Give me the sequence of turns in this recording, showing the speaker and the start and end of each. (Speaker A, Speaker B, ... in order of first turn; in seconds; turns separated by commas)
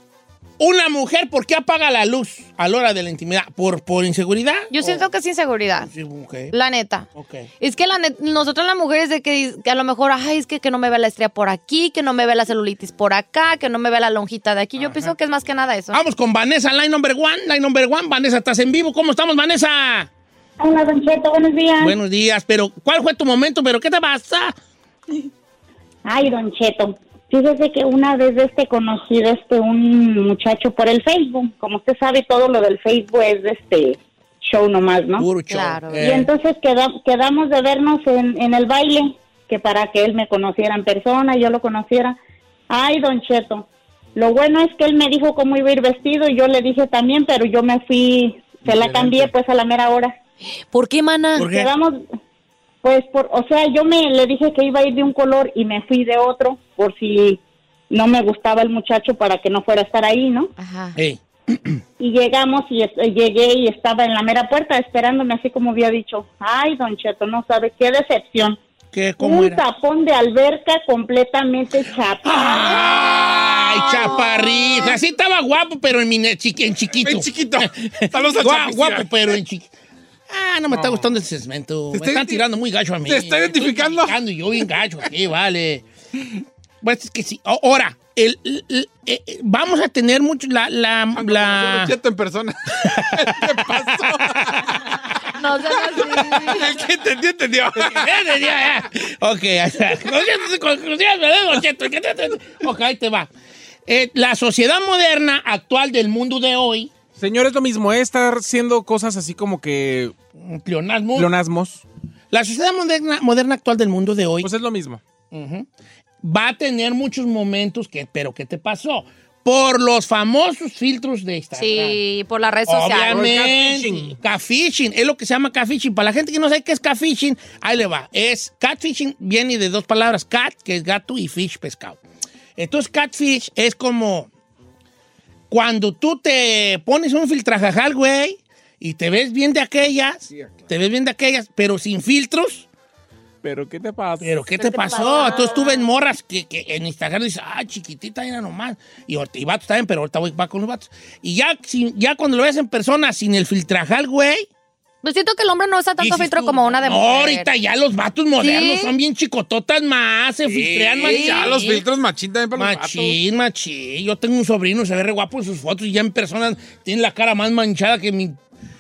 Speaker A: 0.6-5.1, Speaker B: 4.7-5.9, Speaker A: 5.8-6.5, Speaker B: 6.5-7.1, Speaker A: 7.2-7.5, Speaker B: 7.6-16.0, Speaker A: 14.8-15.1, Speaker A: 15.9-20.1, Speaker C: 20.6-22.0, Speaker A: 21.8-24.6, Speaker C: 26.1-35.3, Speaker A: 35.2-36.3, Speaker B: 35.5-36.0, Speaker C: 36.0-42.2, Speaker C: 42.7-50.2, Speaker D: 48.7-49.1, Speaker B: 50.6-51.5, Speaker A: 51.4-51.7, Speaker C: 51.5-52.0, Speaker C: 52.8-60.5, Speaker B: 60.6-61.0, Speaker A: 61.0-61.8, Speaker C: 62.0-68.6, Speaker A: 68.9-69.6, Speaker C: 69.2-72.8, Speaker A: 72.2-79.7, Speaker D: 73.0-73.5, Speaker B: 73.9-74.9, Speaker D: 77.0-79.1, Speaker A: 80.3-85.8, Speaker D: 81.9-82.4, Speaker D: 83.1-84.2, Speaker A: 86.8-92.0, Speaker D: 91.1-95.0, Speaker A: 92.8-94.7, Speaker B: 95.4-96.8, Speaker D: 95.9-98.3, Speaker A: 97.8-103.3, Speaker A: 103.9-106.9, Speaker E: 107.2-110.1, Speaker A: 110.4-111.3, Speaker E: 111.2-111.8, Speaker A: 112.3-114.5, Speaker E: 114.4-115.0, Speaker A: 115.3-115.7, Speaker A: 116.2-122.0, Speaker B: 121.6-123.3, Speaker A: 122.7-132.0, Speaker E: 123.1-124.2, Speaker A: 132.6-134.3, Speaker A: 135.5-142.7, Speaker E: 143.4-144.3, Speaker A: 144.2-154.5, Speaker B: 144.6-145.8, Speaker B: 155.0-157.5, Speaker A: 156.0-161.8, Speaker B: 158.4-158.9, Speaker D: 160.4-163.2, Speaker B: 161.0-161.7, Speaker A: 162.5-168.4